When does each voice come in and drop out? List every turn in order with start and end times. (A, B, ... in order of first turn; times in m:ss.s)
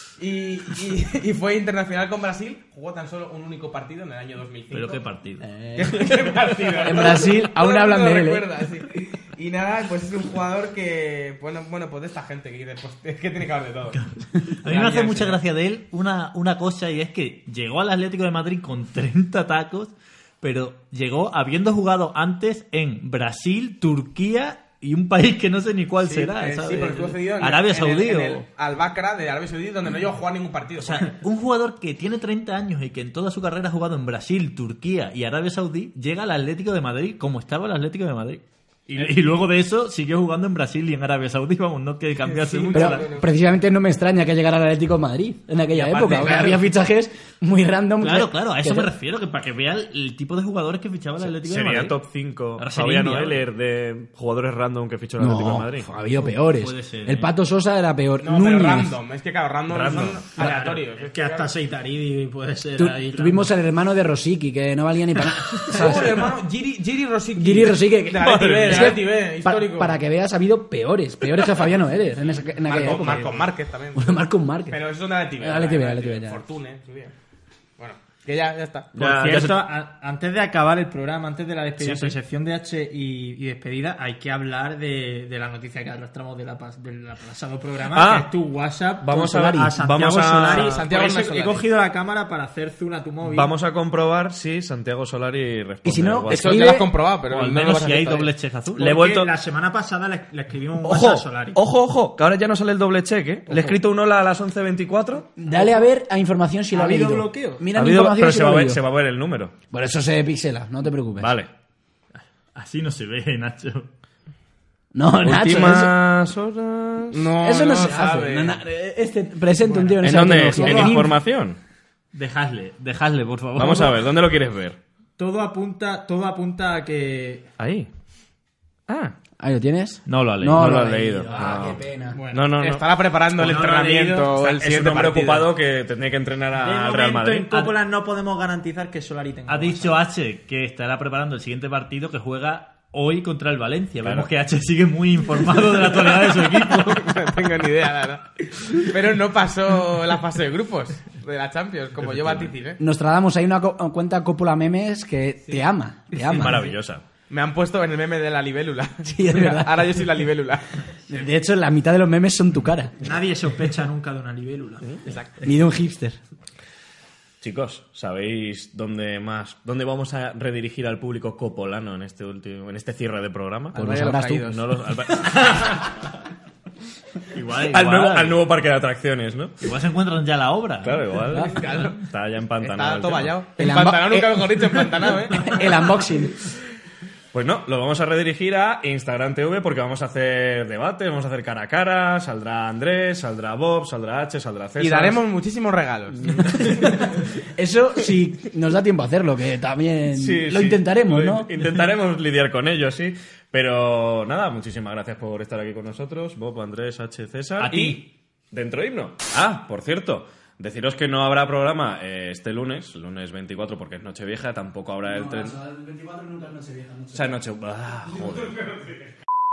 0:00.2-0:05.0 A
0:04.7-0:05.5 B
0:05.4-0:08.5 C
0:05.8-0:14.0 A
0:14.0-0:28.4 B
0:14.6-0:15.4 A
0:26.0-0:31.1 A
0:30.8-0:43.1 B
0:42.2-0:43.3 A
0:42.7-0:48.9 C
0:45.7-0:46.6 A
0:48.0-0:52.0 B
0:51.4-0:55.9 D
0:52.6-0:53.4 B
0:55.2-0:59.0 C
0:56.2-0:57.3 B
0:58.2-1:01.5 A
0:59.7-1:00.3 D
1:00.3-1:03.5 E
1:02.8-1:06.3 C
1:05.6-1:09.9 A
1:07.3-1:14.8 C
1:12.6-1:17.1 A
1:15.4-1:16.4 C
1:17.8-1:18.9 A
1:18.9-1:19.6 D
1:19.0-1:33.5 E
1:21.8-1:22.2 D
1:27.9-1:28.3 D
1:29.0-1:30.8 D
1:29.1-1:29.8 C
1:30.5-1:31.6 A
1:33.2-1:36.8 D
1:35.8-1:36.9 C
1:36.3-1:38.3 A
1:37.3-1:38.9 B
1:38.8-1:39.3 D
1:38.8-1:41.6 E
1:40.8-1:45.3 D
1:45.4-1:48.8 C
1:46.7-1:47.6 E
1:47.7-1:49.5 D
1:49.7-1:51.3 C
1:51.2-1:51.5 D
1:52.5-1:53.9 B
1:54.9-1:55.9 C
1:55.2-1:57.3 D
1:57.1-1:58.6 A
1:57.4-2:01.2 C
1:59.6-2:01.0 E
2:00.0-2:01.6 D
2:02.1-2:04.1 B
2:03.5-2:04.8 D
2:05.2-2:07.5 E
2:07.6-2:07.9 D
2:08.9-2:09.1 D
2:09.4-2:12.2 C
2:10.1-2:10.7 B
2:10.5-2:12.8 D
2:12.1-2:12.5 E
2:12.6-2:15.5 A
2:13.3-2:15.0 E
2:14.6-2:17.7 D
2:16.6-2:20.0 E
2:19.5-2:27.2 B
2:26.7-2:32.8 A
2:32.1-2:32.5 D
2:32.8-2:36.6 C
2:36.2-2:37.0 D
2:37.3-2:40.8 A
2:39.0-2:40.0 C
2:41.1-2:43.0 C
2:43.0-2:45.0 E
2:45.0-2:45.4 A
2:45.4-2:46.2 C
2:47.4-2:55.9 D
2:53.7-2:54.5 C
2:53.8-2:54.6 A
2:57.3-2:58.4 B
2:57.6-2:59.6 D
2:59.6-3:01.1 B
3:00.8-3:03.4 D
3:01.3-3:01.6 C
3:01.4-3:02.0 A
3:02.6-3:05.9 A
3:03.6-3:06.5 C
3:07.3-3:15.2 D
3:14.8-3:17.0 A
3:16.6-3:21.5 C
3:20.1-3:35.6 D
3:27.6-3:28.0 B
3:35.0-3:37.3 C
3:37.1-3:38.7 D